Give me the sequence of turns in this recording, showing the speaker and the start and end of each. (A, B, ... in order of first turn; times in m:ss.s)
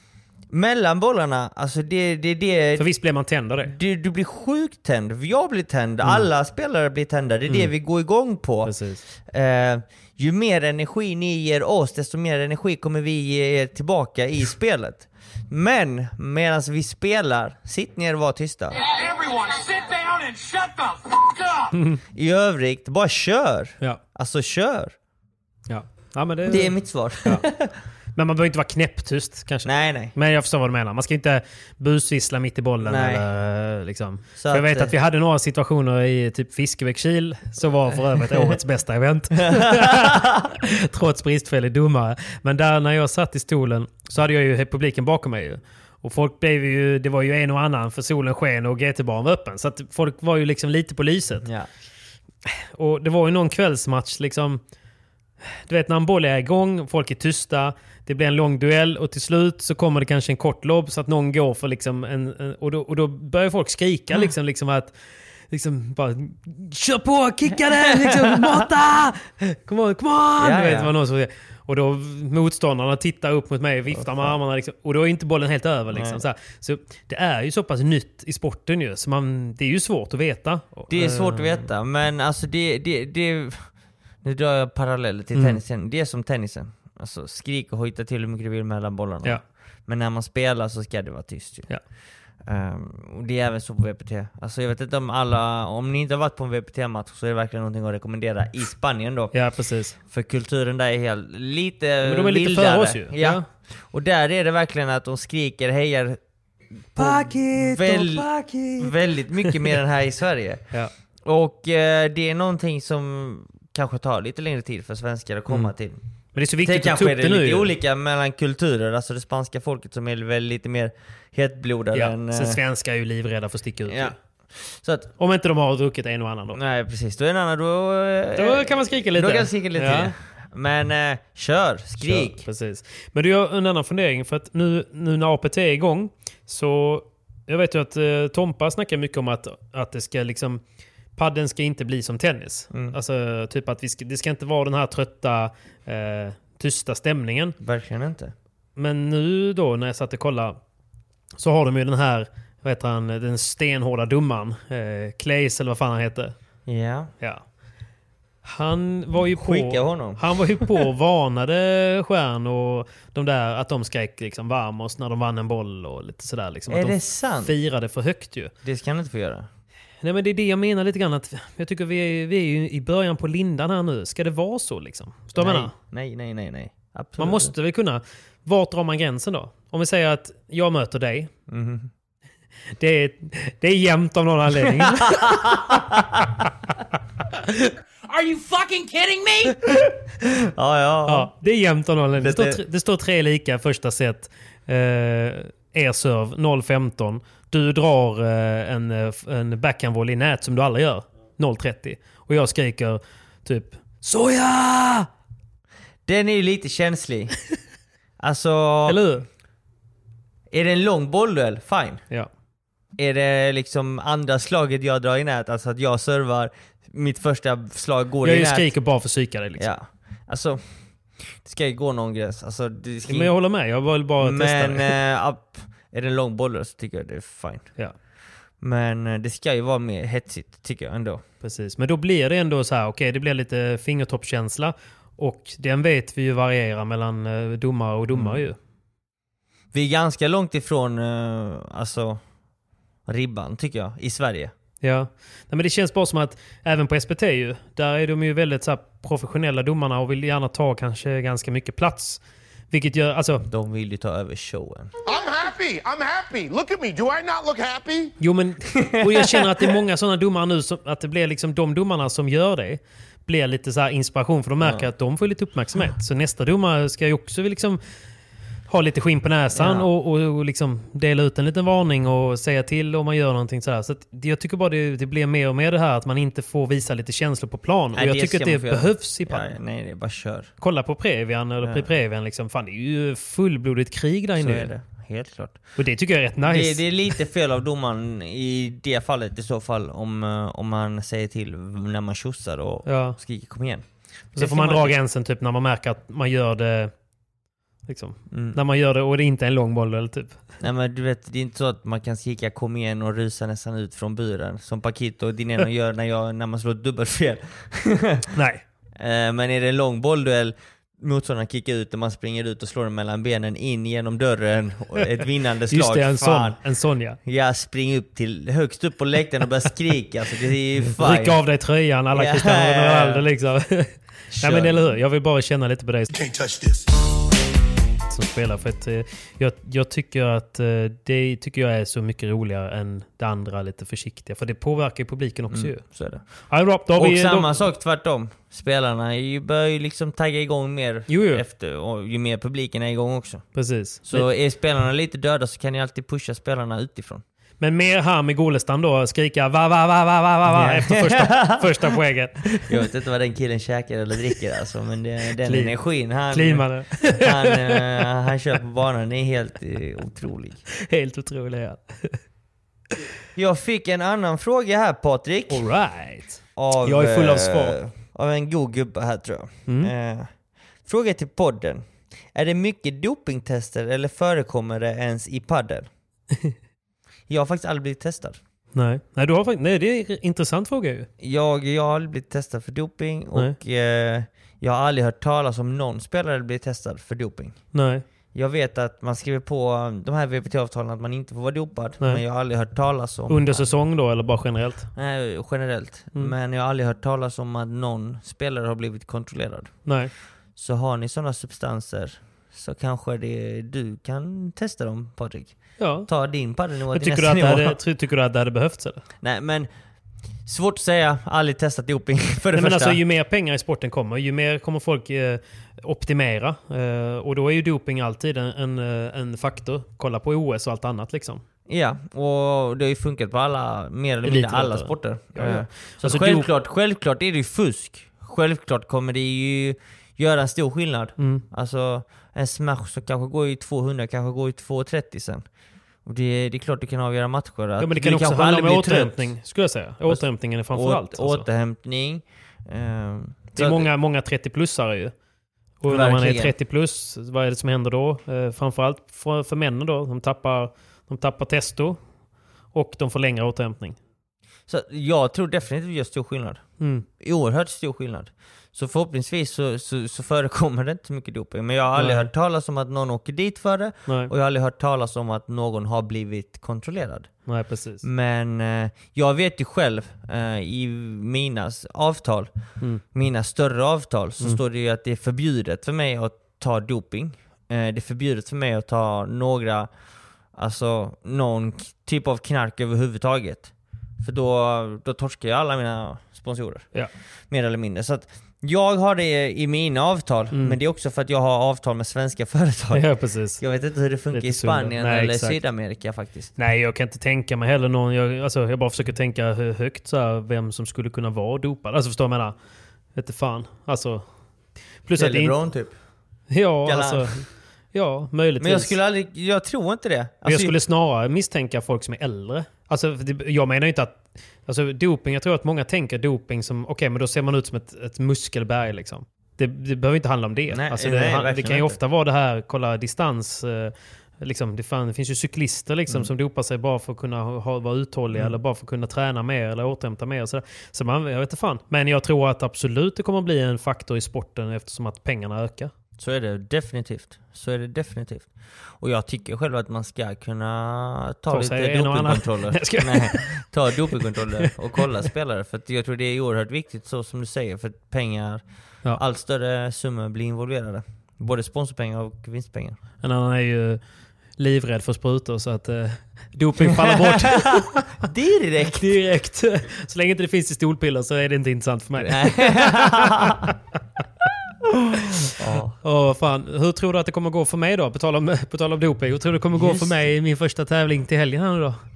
0:00.5-0:02.9 A
0:02.8-0:03.7 B
0:03.6-0:18.8 A
0:08.6-0:09.0 B
0:18.8-0:21.6 C
0:21.7-0:22.0 B
0:22.1-0:24.9 A
0:25.7-0:27.4 B
0:26.5-0:27.7 A
0:28.2-0:51.5 B
0:29.6-0:30.1 A
0:32.8-0:33.2 A
0:34.4-0:34.9 A
0:39.4-0:40.4 A
0:52.4-0:54.6 B
0:55.4-1:04.9 B
1:05.5-1:21.6 B
1:07.8-1:08.6 A
1:10.4-1:10.9 A
1:14.0-1:14.3 A
1:15.9-1:16.2 A
1:20.9-1:23.7 A
1:24.2-1:31.7 A
1:25.3-1:25.6 B
1:32.4-1:39.3 A
1:39.3-1:39.9 B
1:40.1-1:46.2 A
1:42.0-1:43.4 B
1:46.9-1:50.6 A
1:47.0-1:48.9 B
1:51.2-1:56.0 A
1:56.3-1:57.7 B
1:56.6-2:02.6 A
2:01.9-2:04.2 B
2:03.9-2:05.1 A
2:05.2-2:06.6 B
2:06.5-2:12.4 A
2:08.4-2:10.1 B
2:12.0-2:20.6 B
2:21.2-2:27.5 B
2:22.7-2:23.0 A
2:27.6-2:28.3 A
2:28.8-2:30.6 B
2:31.4-2:36.3 B
2:36.7-2:37.1 A
2:38.4-2:48.5 B
2:39.3-2:40.7 A
2:46.7-2:47.5 A
2:48.6-2:49.5 A
2:50.0-2:55.7 B
2:55.4-2:57.5 A
2:57.2-3:01.3 B
3:01.5-3:01.9 A
3:02.8-3:05.5 B
3:04.8-3:06.1 A
3:08.1-3:09.6 C
3:09.7-3:11.3 A
3:11.1-3:25.1 B
3:12.2-3:12.6 A
3:26.0-3:27.3 A
3:28.2-3:29.0 A
3:28.9-3:29.2 B
3:30.5-3:32.0 A
3:33.0-3:38.7 A
3:38.2-3:39.7 B
3:39.6-3:40.6 A
3:41.4-3:43.3 A
3:43.1-3:44.9 B
3:44.2-3:47.7 A
3:48.6-3:51.2 A
3:51.4-3:58.6 B
3:58.1-3:58.4 A
3:59.7-4:02.2 A
4:03.1-4:04.5 A
4:04.8-4:13.4 B
4:13.5-4:14.9 A
4:15.1-4:18.1 D
4:18.2-4:27.8 B
4:18.8-4:19.6 A
4:24.6-4:24.9 A
4:28.7-4:39.6 B
4:29.5-4:29.9 A
4:37.9-4:40.5 A
4:40.6-4:44.7 B
4:41.6-4:41.9 A
4:44.4-4:45.6 A
4:45.8-4:46.8 B
4:46.4-4:55.0 A
4:52.8-4:53.2 B
4:54.4-4:56.9 B
4:57.9-5:00.4 B
4:58.3-4:58.6 A
5:00.6-5:08.2 A
5:08.3-5:08.6 B
5:09.0-5:16.6 A
5:15.7-5:17.2 B
5:17.2-5:21.4 A
5:21.0-5:26.1 B
5:22.1-5:23.2 A
5:24.3-5:24.8 A
5:26.4-5:26.7 D
5:28.1-5:35.8 B
5:35.5-5:36.2 A
5:36.5-5:37.6 B
5:36.9-5:47.2 A
5:41.1-5:41.4 B
5:43.5-5:44.3 B
5:47.6-5:52.7 B
5:50.5-5:51.7 A
5:52.7-6:00.6 A
5:55.4-5:55.8 B
5:56.3-5:57.8 B
6:00.8-6:02.2 B
6:03.4-6:05.6 A
6:05.5-6:07.8 B
6:06.6-6:10.3 A
6:10.8-6:15.9 A
6:17.3-6:18.4 A
6:18.7-6:21.1 B
6:21.2-6:27.6 A
6:27.7-6:28.0 B
6:28.3-6:33.7 A
6:33.3-6:34.9 B
6:35.0-6:39.8 A
6:40.6-6:45.6 A
6:45.8-6:46.1 B
6:46.1-6:47.8 A
6:46.9-6:49.0 B
6:49.2-6:49.7 A
6:50.4-6:53.0 A
6:52.5-7:01.4 B
7:01.7-7:15.4 A
7:04.2-7:06.5 B
7:11.2-7:11.4 B
7:16.0-7:19.3 A
7:17.8-7:21.5 B
7:20.0-7:23.9 A
7:23.6-7:25.1 B
7:25.8-7:32.0 B
7:25.9-7:26.5 A
7:32.7-7:34.0 B
7:34.7-7:36.6 A
7:36.8-7:37.0 B
7:37.2-7:47.3 A
7:42.0-7:42.3 B
7:44.1-7:44.3 B
7:47.5-7:48.0 B
7:48.0-7:52.5 A
7:53.1-7:59.9 A
8:00.5-8:06.9 A
8:07.5-8:16.5 A
8:10.5-8:10.8 B
8:12.9-8:13.6 B
8:14.3-8:15.6 B
8:16.6-8:22.5 B
8:23.2-8:24.2 B
8:25.0-8:25.5 B
8:25.2-8:25.9 A
8:26.5-8:27.4 B
8:26.8-8:27.4 A
8:27.9-8:28.9 B
8:28.6-8:30.7 A
8:30.4-8:55.9 B
8:40.7-8:42.0 A
8:56.2-9:08.6 A
9:01.5-9:03.5 B
9:09.1-9:13.0 A
9:13.2-9:14.0 B
9:14.6-9:18.1 B
9:16.8-9:19.2 A
9:19.0-9:23.7 B
9:22.2-9:23.7 A
9:24.9-9:26.0 A
9:26.0-9:32.0 B
9:29.7-9:30.3 A